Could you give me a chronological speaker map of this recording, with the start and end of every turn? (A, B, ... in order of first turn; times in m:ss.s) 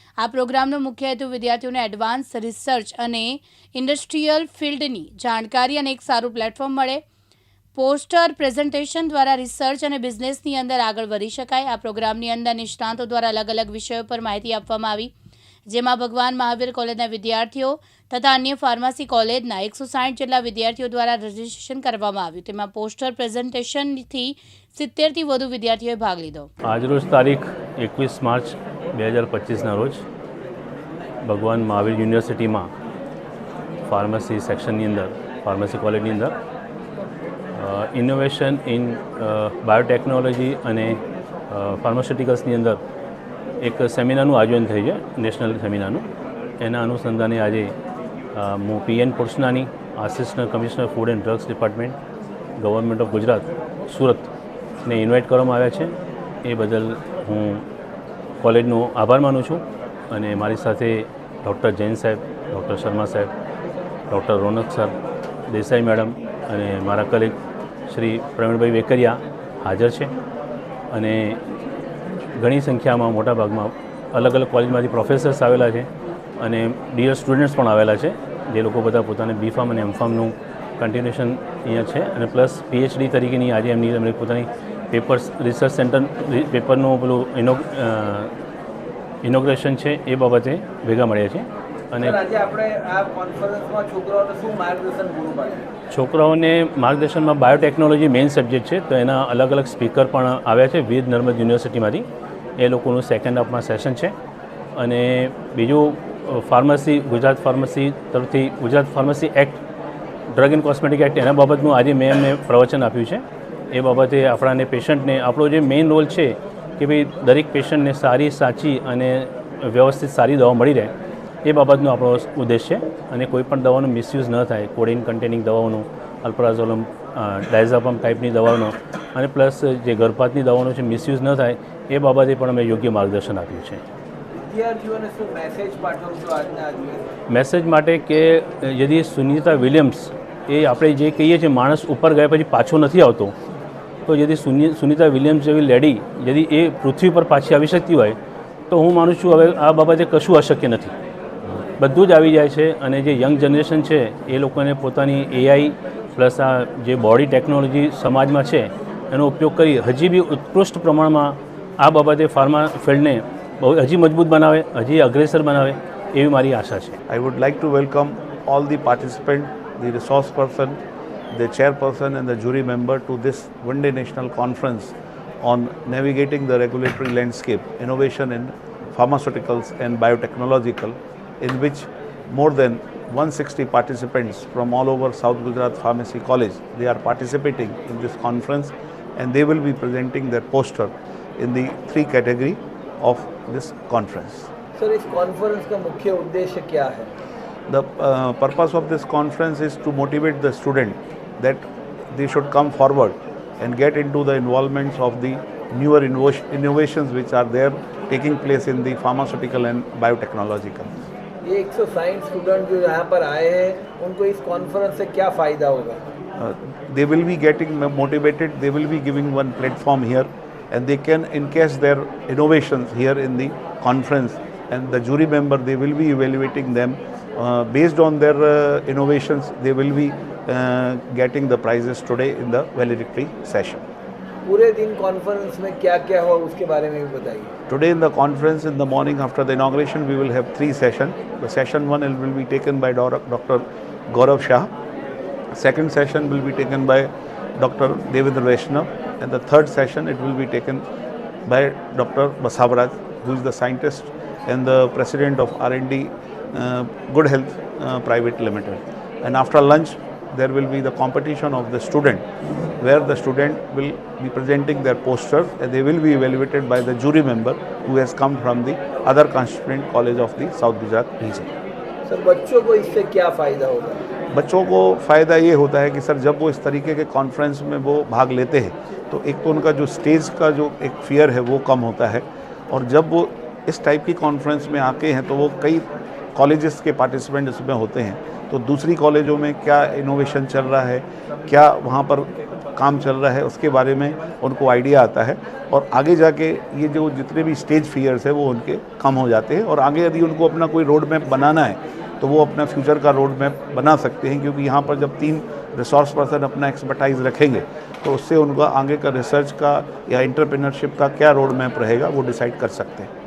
0:00.2-0:07.0 A
0:07.8-0:15.1 A
0:15.7-0:26.5 A
0:26.7-0:30.0 B
0:31.2-0:32.7 B
0:33.9-0:36.4 B
0:37.6-0:41.0 B
0:41.5-0:42.8 B
0:43.6-0:46.1 B
0:46.6-0:47.7 B
0:48.4-0:52.0 B
0:52.6-0:54.3 B
0:54.8-0:55.9 B
0:56.4-0:57.6 B
0:58.4-1:03.3 B
1:04.1-1:05.0 B
1:05.5-1:07.4 B
1:07.9-1:10.1 B
1:10.9-1:11.4 B
1:12.4-1:15.9 B
1:16.4-1:28.3 B
1:29.2-1:32.2 B
1:32.0-1:35.7 C
1:35.9-1:42.1 B
1:42.6-1:44.2 B
1:44.8-1:49.6 B
1:50.3-2:00.9 B
2:01.4-2:13.8 B
2:14.4-2:17.1 C
2:17.3-2:23.4 B
2:24.1-2:28.2 B
2:28.7-2:30.9 B
2:31.8-2:47.0 B
2:47.1-2:50.8 D
2:51.3-3:14.5 D
3:14.8-3:17.1 C
3:17.7-3:30.9 D
3:31.4-3:36.0 C
3:36.4-3:53.8 D
3:54.5-3:57.5 C
3:57.7-4:04.7 D
4:05.6-4:10.8 D
4:11.5-4:22.3 D
4:22.8-4:31.5 D
4:32.1-4:34.0 C
4:34.3-4:45.8 D
4:46.4-5:13.1 D